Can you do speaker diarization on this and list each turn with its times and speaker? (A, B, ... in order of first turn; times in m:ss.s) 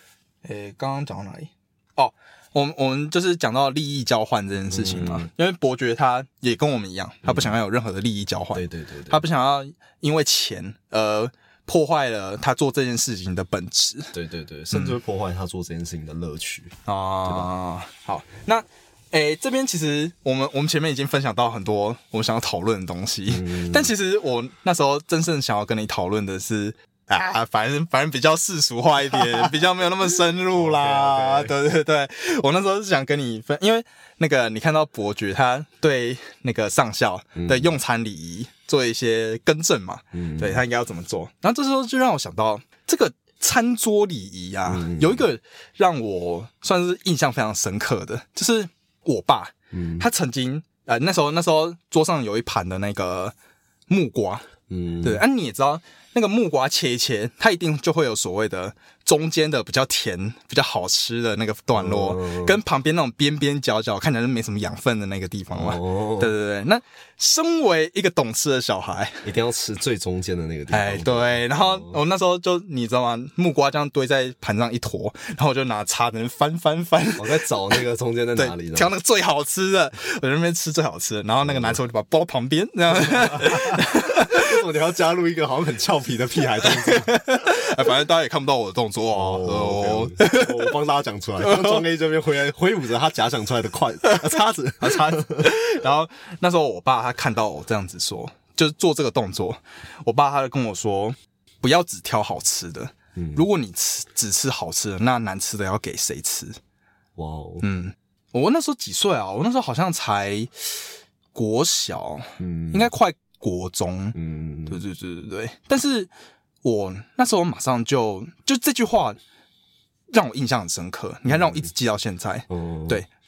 0:00.4-0:14.1 A
0:04.7-0:05.3 B
0:07.2-0:07.5 B
0:08.5-0:09.2 B
0:14.1-0:17.5 B
0:16.8-0:53.3 A
0:23.3-0:23.9 B
0:30.5-0:31.5 B
0:37.4-0:37.7 B
0:40.1-0:40.6 B
0:44.7-0:45.2 B
0:49.7-0:50.0 B
0:53.9-0:54.4 A
0:54.7-0:55.2 B
0:55.0-1:09.2 A
1:01.7-1:02.6 B
1:05.5-1:06.3 B
1:09.2-1:12.0 B
1:10.7-1:17.7 A
1:17.2-1:18.9 B
1:18.4-1:24.5 A
1:21.4-1:21.8 B
1:22.9-1:27.2 B
1:26.7-1:30.7 A
1:29.1-1:35.5 B
1:31.4-1:31.8 A
1:34.8-1:46.6 A
1:43.1-1:43.4 B
1:47.2-1:47.6 B
1:47.6-1:50.5 A
1:51.3-1:54.2 A
1:52.4-1:52.9 B
1:54.1-1:54.8 B
1:54.7-1:56.1 A
1:56.6-1:59.2 A
2:00.1-2:03.1 A
2:01.3-2:01.7 B
2:02.5-2:03.0 B